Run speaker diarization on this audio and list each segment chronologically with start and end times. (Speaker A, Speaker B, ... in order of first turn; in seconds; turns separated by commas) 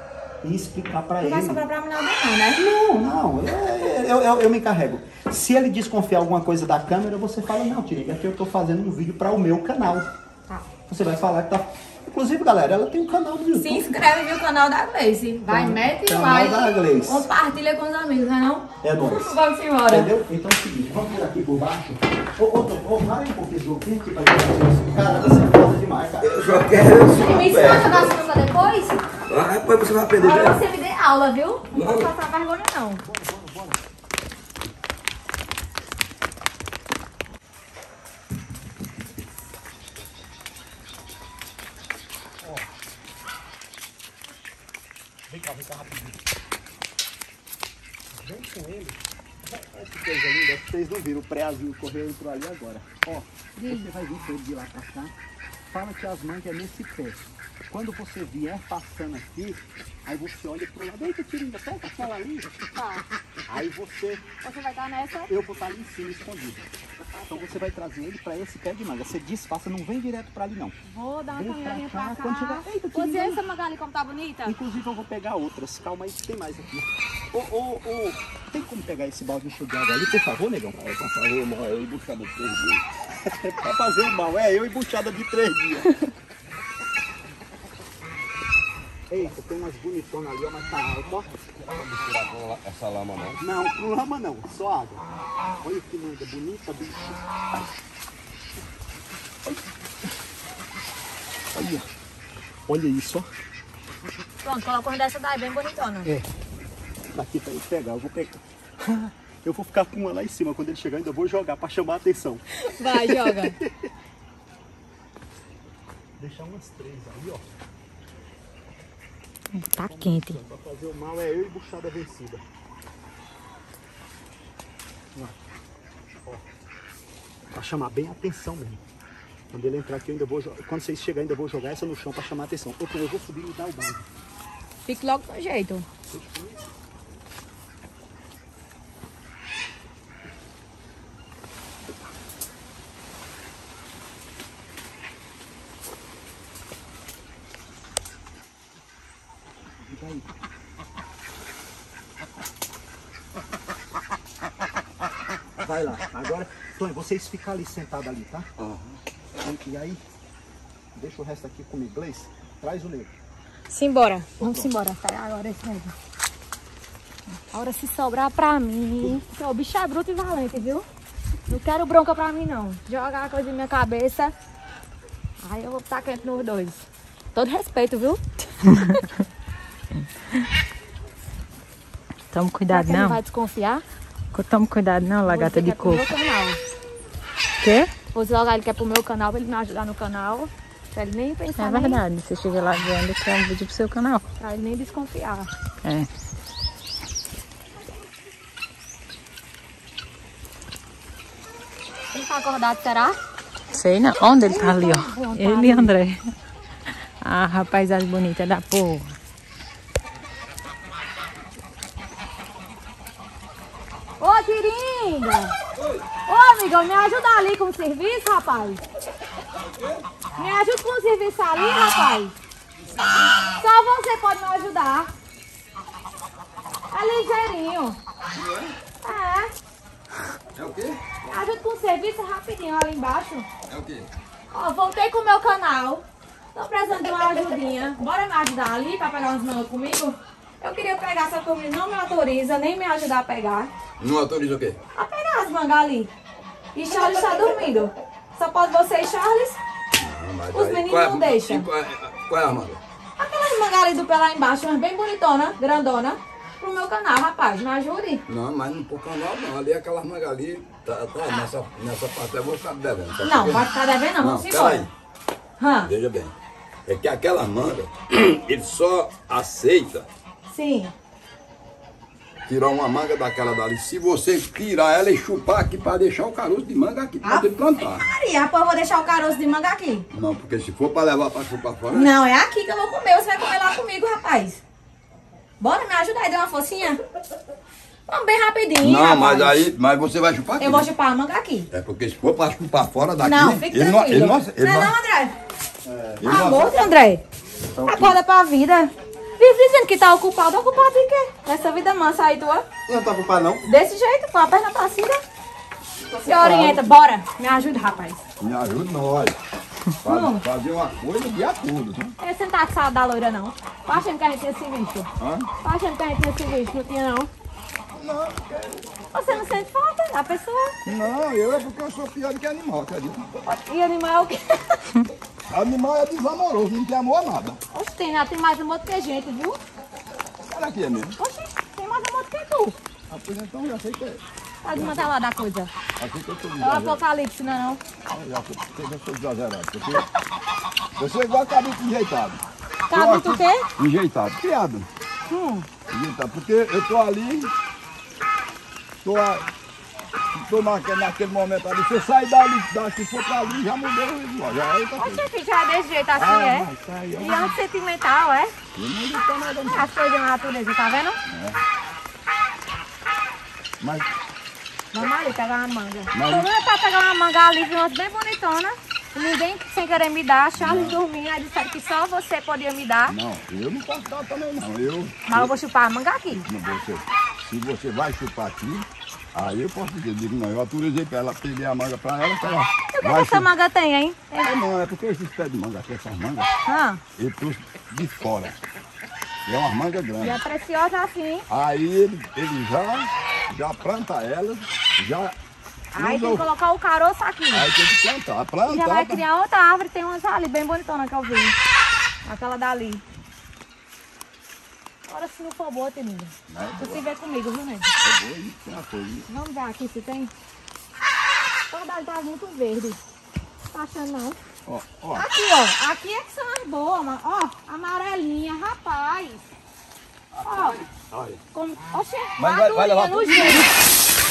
Speaker A: 0.4-1.6, Speaker B: 1.2-2.6, Speaker A: 2.5-10.1, Speaker A: 10.9-13.9, Speaker B: 13.5-20.1, Speaker A: 15.5-17.3, Speaker A: 18.8-19.3, Speaker A: 19.9-26.3, Speaker C: 26.2-28.1, Speaker B: 27.1-29.0, Speaker C: 29.3-30.6, Speaker B: 30.2-33.0, Speaker C: 31.7-32.1, Speaker A: 33.1-33.8, Speaker A: 45.3-46.2, Speaker A: 48.2-55.1, Speaker B: 53.5-53.9, Speaker A: 55.7-62.5, Speaker B: 62.7-63.0, Speaker A: 63.5-64.2, Speaker B: 64.4-65.3, Speaker A: 65.3-66.7, Speaker B: 67.1-67.4, Speaker A: 67.2-70.7, Speaker B: 70.9-74.5, Speaker A: 71.3-73.4, Speaker A: 74.4-81.1, Speaker C: 80.9-82.8, Speaker A: 83.2-86.0, Speaker A: 89.1-91.3, Speaker C: 91.7-93.4, Speaker A: 93.4-95.0, Speaker A: 95.6-97.2, Speaker A: 102.7-103.3, Speaker B: 104.4-106.1, Speaker A: 107.1-113.9, Speaker B: 112.6-113.6, Speaker A: 116.2-117.4, Speaker B: 119.6-120.4, Speaker A: 119.9-122.4, Speaker A: 127.5-128.8, Speaker A: 129.5-134.0, Speaker B: 134.8-135.8, Speaker A: 136.1-136.6, Speaker A: 149.9-150.3, Speaker A: 155.6-158.5, Speaker C: 158.6-158.8, Speaker A: 159.4-160.0, Speaker A: 160.9-163.1, Speaker B: 163.7-165.9, Speaker B: 167.5-170.8, Speaker B: 171.5-174.3, Speaker B: 175.4-178.2, Speaker D: 178.7-179.1, Speaker D: 182.3-183.2, Speaker B: 182.7-183.8, Speaker D: 184.3-186.1, Speaker B: 185.2-186.6, Speaker D: 187.6-187.9, Speaker B: 188.1-192.0, Speaker D: 191.6-194.2, Speaker B: 194.4-195.5, Speaker D: 195.8-196.1, Speaker B: 202.1-203.2, Speaker D: 203.7-206.3, Speaker B: 204.4-205.9, Speaker D: 207.2-209.1, Speaker B: 214.2-215.5, Speaker C: 215.8-216.0, Speaker B: 216.2-218.8, Speaker C: 219.7-220.0, Speaker B: 220.3-222.3, Speaker C: 223.0-223.3, Speaker B: 223.6-225.1, Speaker B: 226.9-228.0, Speaker C: 228.3-228.7, Speaker B: 229.0-229.5, Speaker C: 230.5-231.0, Speaker B: 231.2-233.5, Speaker C: 233.7-234.1, Speaker B: 234.5-243.7, Speaker C: 244.0-244.8, Speaker B: 244.9-246.1, Speaker B: 246.7-249.6, Speaker C: 249.9-252.8, Speaker B: 250.5-251.7, Speaker B: 253.2-258.2, Speaker C: 258.3-263.7, Speaker B: 263.2-264.9, Speaker C: 264.2-264.9, Speaker B: 265.6-265.9, Speaker C: 265.8-266.3, Speaker C: 266.9-270.1, Speaker B: 270.5-270.9, Speaker C: 272.5-278.1, Speaker B: 277.2-280.1, Speaker C: 280.1-282.1, Speaker B: 281.9-284.6, Speaker B: 285.6-287.0, Speaker B: 288.1-289.6, Speaker C: 288.8-290.9, Speaker B: 290.6-291.7, Speaker C: 291.7-294.9, Speaker B: 293.2-295.3, Speaker A: 295.8-296.3, Speaker C: 296.2-296.9, Speaker B: 296.2-297.2, Speaker C: 297.8-298.1, Speaker B: 297.9-302.7, Speaker C: 302.9-303.6, Speaker B: 303.6-305.2, Speaker C: 306.1-306.8, Speaker B: 306.2-308.2, Speaker C: 308.4-309.4, Speaker C: 310.0-312.1, Speaker B: 310.0-310.4, Speaker B: 312.2-315.1, Speaker C: 315.2-315.5, Speaker B: 315.6-317.3, Speaker C: 317.9-319.4, Speaker B: 319.1-320.8, Speaker C: 320.9-323.3, Speaker B: 323.4-324.9, Speaker C: 325.5-327.6, Speaker B: 327.7-329.6, Speaker C: 330.5-331.1, Speaker B: 331.2-332.7, Speaker C: 333.1-334.2, Speaker B: 334.6-335.7, Speaker C: 334.7-335.0, Speaker C: 336.0-337.0, Speaker B: 336.6-337.8, Speaker C: 338.1-340.1, Speaker C: 341.0-344.9, Speaker B: 342.9-343.7, Speaker B: 345.3-345.7, Speaker C: 345.9-347.5, Speaker C: 349.0-349.4, Speaker C: 350.4-355.2, Speaker B: 354.9-358.5, Speaker C: 356.1-357.5, Speaker C: 358.7-359.9, Speaker B: 359.7-361.2, Speaker C: 361.3-361.6, Speaker C: 363.8-364.1, Speaker B: 364.9-373.1, Speaker C: 366.1-366.5, Speaker C: 370.5-371.0, Speaker C: 373.1-375.5, Speaker B: 375.3-376.4, Speaker C: 376.3-383.5, Speaker B: 382.9-384.5, Speaker C: 384.4-386.5, Speaker B: 386.6-387.0, Speaker C: 387.2-388.6, Speaker C: 389.4-390.4, Speaker B: 390.2-391.4, Speaker C: 391.5-395.3, Speaker B: 395.9-397.7, Speaker C: 395.9-396.4, Speaker C: 397.5-399.2, Speaker B: 398.7-401.6, Speaker B: 402.2-403.0, Speaker B: 405.1-407.9, Speaker C: 406.5-407.0, Speaker C: 408.0-409.2, Speaker B: 409.3-410.3, Speaker B: 411.7-413.0, Speaker B: 413.7-414.4, Speaker C: 414.6-415.2, Speaker B: 415.1-419.5, Speaker C: 420.3-421.4, Speaker B: 420.4-420.8, Speaker B: 421.5-423.7, Speaker C: 422.4-423.7